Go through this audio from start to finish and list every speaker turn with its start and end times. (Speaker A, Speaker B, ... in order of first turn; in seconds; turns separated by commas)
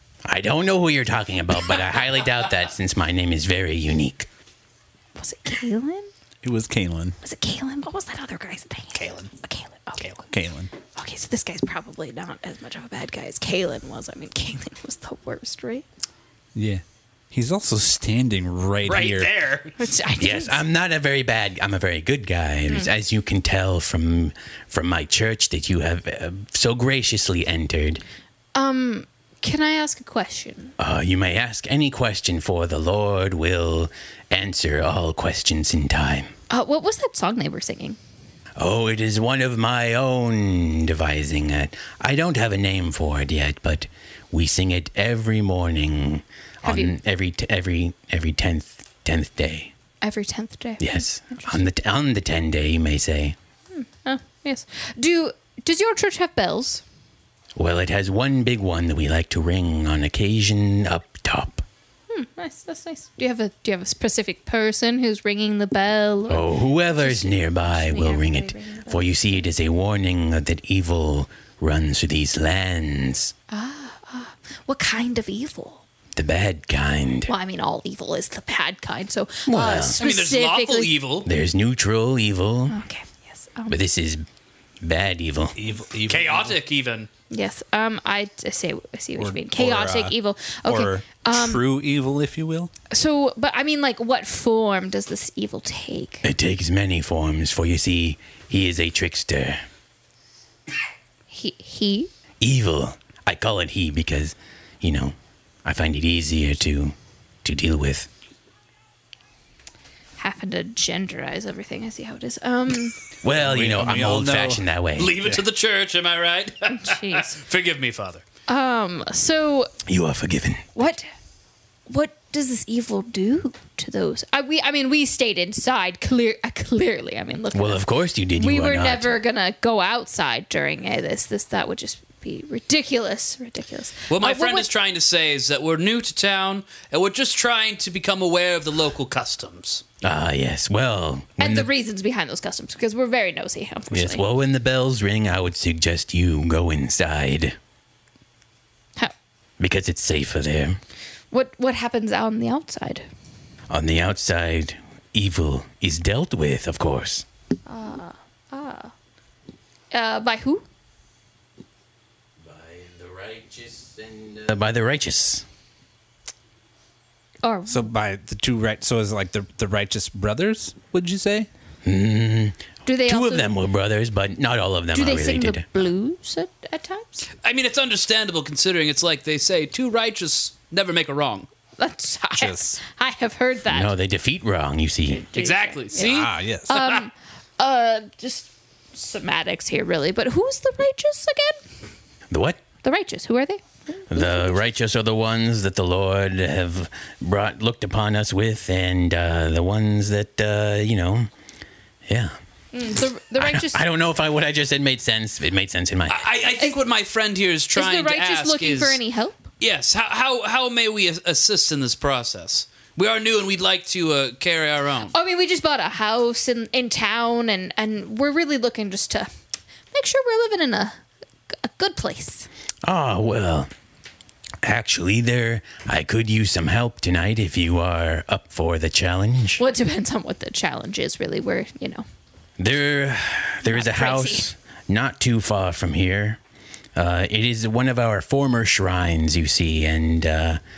Speaker A: 0.2-4.3, Speaker B: 5.2-6.1, Speaker C: 6.4-7.2, Speaker B: 7.2-10.3, Speaker D: 8.9-9.3, Speaker C: 10.3-10.7, Speaker B: 10.9-15.9, Speaker C: 16.6-19.3, Speaker D: 18.9-19.8, Speaker B: 19.8-20.6, Speaker A: 20.2-28.0, Speaker B: 28.6-30.7, Speaker A: 30.8-36.3, Speaker B: 36.5-38.0, Speaker A: 38.6-49.7, Speaker B: 46.6-47.0, Speaker B: 50.0-51.6, Speaker A: 50.8-53.4, Speaker B: 53.7-56.8, Speaker A: 57.6-61.6, Speaker B: 62.1-69.5, Speaker A: 66.3-73.3, Speaker B: 73.5-75.8, Speaker A: 76.2-77.3, Speaker B: 77.3-80.9, Speaker A: 79.5-80.0, Speaker D: 80.0-81.3, Speaker A: 81.2-82.8, Speaker B: 82.7-83.8, Speaker A: 83.7-84.3, Speaker A: 84.8-85.5, Speaker C: 85.5-86.6, Speaker D: 86.1-87.1, Speaker B: 87.3-91.6, Speaker C: 89.2-92.7, Speaker B: 92.9-96.3, Speaker A: 96.2-99.6, Speaker B: 101.3-102.1, Speaker A: 102.4-108.1, Speaker B: 110.2-113.0, Speaker A: 113.2-115.3, Speaker C: 113.3-114.7, Speaker D: 115.0-118.2, Speaker B: 116.7-117.3, Speaker B: 118.5-119.7, Speaker A: 119.9-120.7, Speaker B: 120.8-121.1, Speaker B: 121.9-134.7, Speaker A: 127.5-129.1, Speaker D: 134.1-139.8, Speaker A: 140.0-141.7, Speaker B: 141.4-144.2, Speaker A: 143.9-147.6, Speaker A: 149.6-150.8, Speaker B: 151.3-153.1, Speaker A: 153.7-157.3, Speaker B: 157.7-158.9, Speaker B: 159.9-160.7, Speaker A: 162.4-165.4, Speaker B: 167.4-167.9, Speaker C: 167.7-171.5, Speaker A: 171.8-175.7, Speaker B: 172.9-173.5, Speaker B: 174.9-177.3, Speaker D: 177.4-181.5, Speaker B: 181.8-183.9, Speaker C: 182.4-182.7, Speaker A: 183.7-185.2, Speaker B: 185.1-191.6, Speaker D: 185.3-187.0, Speaker C: 186.0-186.8, Speaker A: 192.3-192.6, Speaker B: 192.8-194.6, Speaker A: 194.1-201.3, Speaker A: 202.1-202.4, Speaker B: 202.7-203.8, Speaker A: 203.4-206.3, Speaker D: 206.1-209.0, Speaker B: 207.7-209.4, Speaker D: 209.6-215.1, Speaker B: 215.1-219.3, Speaker B: 219.9-221.0, Speaker B: 221.5-222.5, Speaker A: 222.8-223.7, Speaker A: 224.6-229.6, Speaker B: 229.6-232.1, Speaker A: 232.6-236.4, Speaker B: 233.7-234.5, Speaker A: 236.9-240.6